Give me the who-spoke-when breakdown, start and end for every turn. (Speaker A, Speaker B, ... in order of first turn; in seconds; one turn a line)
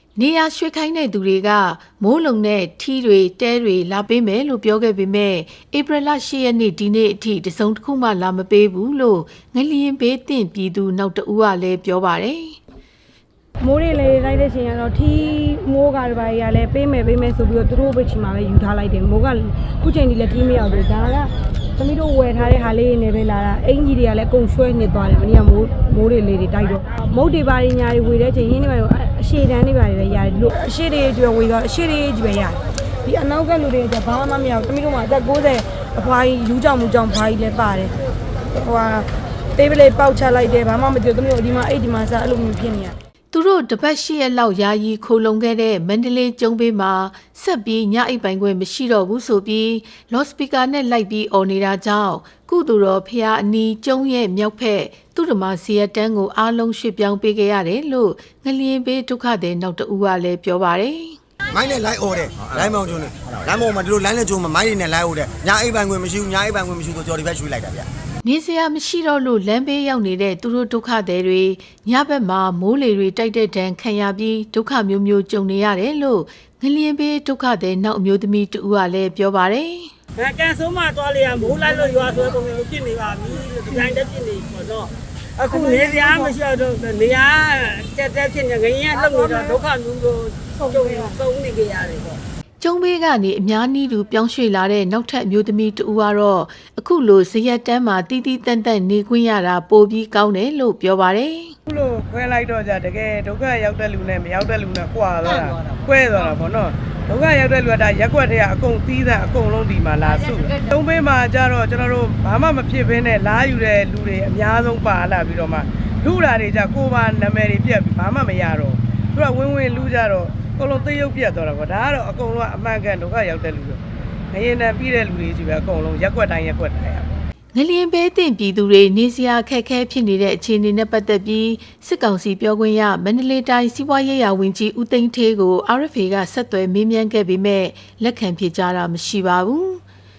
Speaker A: 0.2-12.6
Speaker B: 13.6-37.9
Speaker B: 38.5-43.0
Speaker A: 43.3-61.2
Speaker C: 61.5-67.9
Speaker A: 68.2-79.9
Speaker D: 80.2-92.2
Speaker A: 92.6-101.5
Speaker E: 101.7-123.8
Speaker E: 124.3-127.1
Speaker A: 127.5-139.8